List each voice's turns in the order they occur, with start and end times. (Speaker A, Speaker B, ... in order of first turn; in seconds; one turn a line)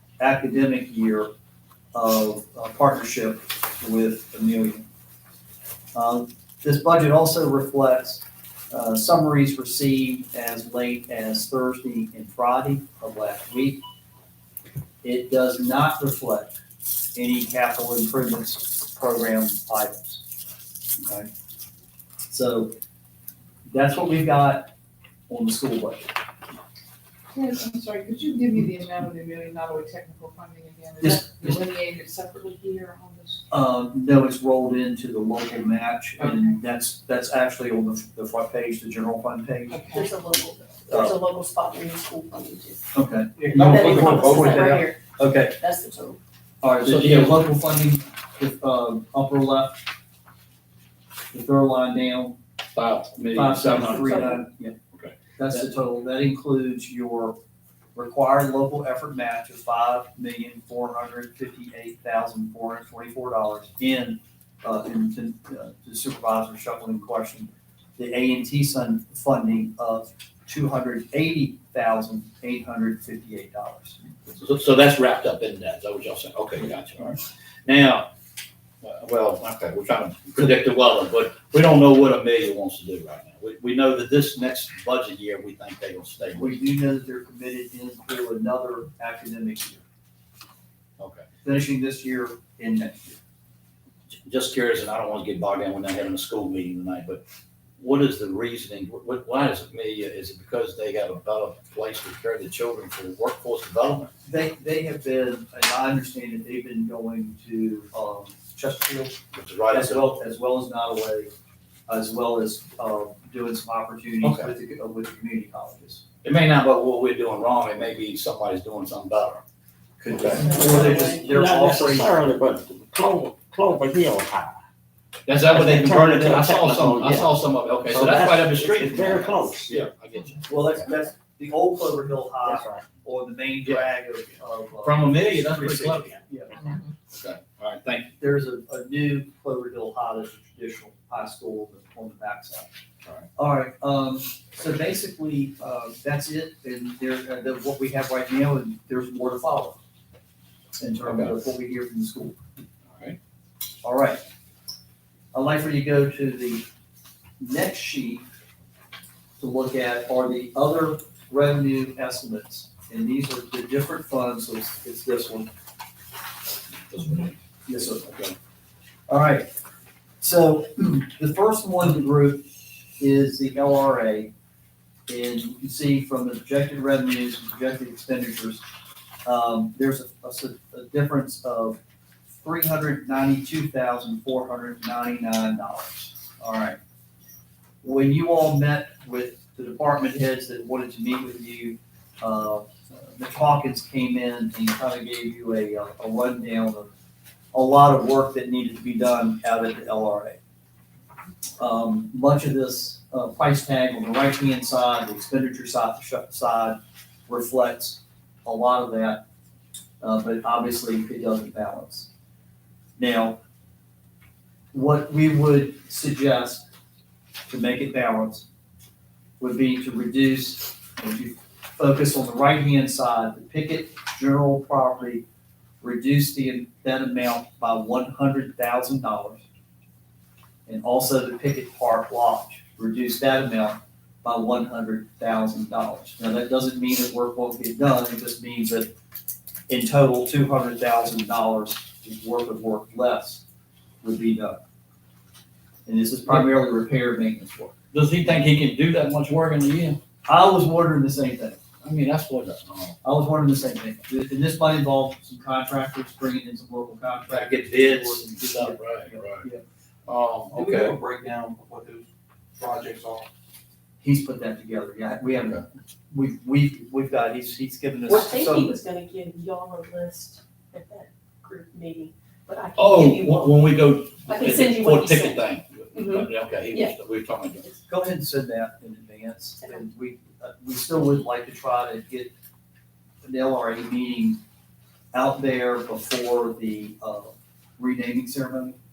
Speaker A: 0.2-1.3
Speaker A: 1.9-4.9
Speaker A: 5.9-13.8
Speaker A: 15.0-16.6
Speaker A: 17.1-20.2
Speaker A: 21.0-21.3
Speaker A: 22.3-22.7
Speaker A: 23.7-24.7
Speaker A: 25.3-26.1
Speaker B: 27.3-33.5
Speaker A: 31.0-31.6
Speaker A: 33.5-39.8
Speaker B: 36.2-36.5
Speaker B: 39.7-40.1
Speaker C: 39.9-42.8
Speaker A: 40.9-41.1
Speaker A: 42.9-45.5
Speaker D: 43.4-44.8
Speaker C: 43.5-46.2
Speaker A: 46.6-49.8
Speaker E: 46.8-47.5
Speaker A: 51.3-52.4
Speaker E: 52.7-54.3
Speaker A: 53.3-54.7
Speaker E: 54.9-55.7
Speaker A: 55.4-57.4
Speaker A: 57.9-74.0
Speaker E: 74.3-78.1
Speaker E: 78.8-86.6
Speaker A: 86.3-89.8
Speaker E: 91.0-91.2
Speaker A: 91.4-93.2
Speaker E: 94.1-97.2
Speaker E: 97.8-104.1
Speaker A: 104.2-109.2
Speaker E: 109.3-110.0
Speaker A: 109.7-111.3
Speaker A: 111.9-116.0
Speaker E: 114.2-114.5
Speaker E: 116.2-119.4
Speaker E: 120.0-120.5
Speaker A: 120.1-122.2
Speaker F: 120.1-120.5
Speaker C: 120.4-121.2
Speaker F: 121.2-124.6
Speaker E: 125.2-130.6
Speaker F: 125.5-129.9
Speaker A: 130.5-136.5
Speaker F: 132.4-132.8
Speaker E: 134.8-136.2
Speaker E: 137.1-138.2
Speaker A: 138.2-142.7
Speaker A: 143.3-149.8
Speaker A: 150.8-152.4
Speaker E: 151.0-151.4
Speaker E: 152.9-153.2
Speaker A: 153.8-154.2
Speaker A: 155.3-156.6
Speaker A: 157.4-158.2
Speaker A: 159.4-165.5
Speaker E: 166.9-167.3
Speaker A: 167.7-168.1
Speaker E: 167.9-168.3
Speaker A: 169.1-169.5
Speaker A: 170.2-172.5
Speaker A: 173.0-174.3
Speaker A: 175.1-178.6
Speaker A: 179.2-181.8
Speaker A: 182.3-186.8
Speaker A: 187.8-196.9
Speaker A: 197.5-200.4
Speaker A: 201.6-206.8
Speaker A: 207.3-209.2
Speaker A: 210.0-212.1
Speaker A: 213.0-213.4
Speaker A: 214.7-216.7
Speaker A: 217.5-218.5
Speaker A: 219.4-225.2
Speaker A: 225.8-229.4
Speaker A: 230.7-238.9
Speaker A: 239.7-243.4
Speaker A: 244.0-244.6
Speaker A: 245.8-247.7
Speaker E: 247.9-250.0
Speaker A: 250.2-251.6
Speaker E: 251.8-253.0
Speaker A: 253.0-259.6
Speaker E: 257.3-259.4
Speaker E: 260.1-261.0
Speaker D: 260.5-263.3
Speaker A: 264.0-268.8
Speaker C: 268.1-273.7
Speaker E: 272.8-277.6
Speaker C: 274.3-276.9
Speaker A: 277.9-282.3
Speaker A: 283.2-284.4
Speaker A: 285.1-288.8